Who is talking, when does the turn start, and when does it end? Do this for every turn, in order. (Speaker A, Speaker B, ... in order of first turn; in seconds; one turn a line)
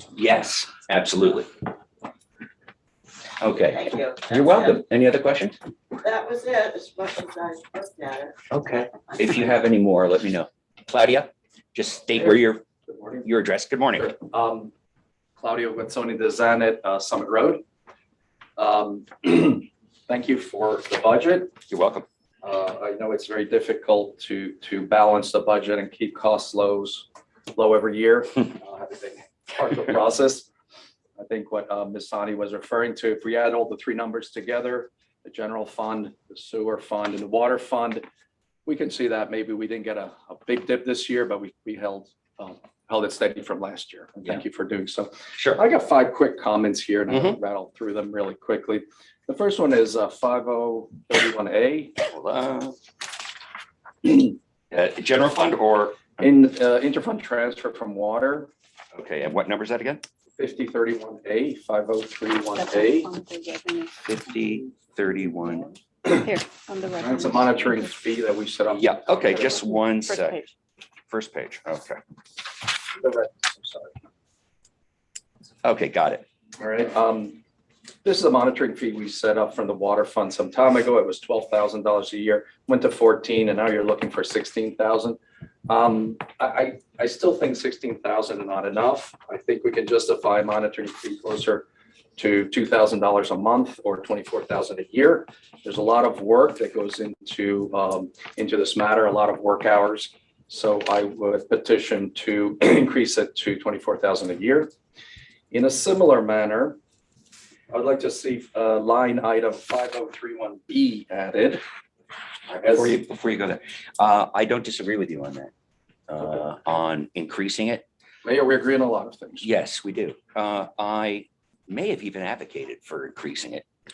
Speaker A: 0.1-1.5
Speaker A: 3.4-5.6
Speaker B: 3.6-4.8
Speaker B: 6.0-8.5
Speaker A: 8.5-12.6
Speaker B: 9.1-9.5
Speaker C: 12.1-13.3
Speaker A: 13.2-14.1
Speaker C: 14.0-14.7
Speaker C: 15.4-17.6
Speaker C: 18.6-21.5
Speaker A: 21.7-22.1
Speaker C: 22.4-30.5
Speaker C: 31.2-38.0
Speaker C: 38.6-51.9
Speaker A: 45.4-45.6
Speaker A: 47.1-47.4
Speaker A: 52.0-52.8
Speaker A: 54.0-56.2
Speaker C: 56.2-58.5
Speaker A: 58.9-60.0
Speaker C: 60.4-63.1
Speaker D: 62.5-64.0
Speaker A: 64.0-65.7
Speaker D: 66.0-67.8
Speaker C: 67.0-69.6
Speaker A: 68.8-70.4
Speaker D: 70.0-70.5
Speaker A: 71.1-72.0
Speaker C: 73.0-74.0
Speaker A: 75.6-76.2
Speaker C: 76.6-77.4
Speaker C: 78.0-104.7
Speaker C: 105.5-106.8
Speaker C: 107.7-111.6
Speaker A: 112.5-115.5
Speaker C: 112.6-113.0
Speaker A: 116.1-117.8
Speaker C: 118.2-119.5
Speaker A: 119.4-123.6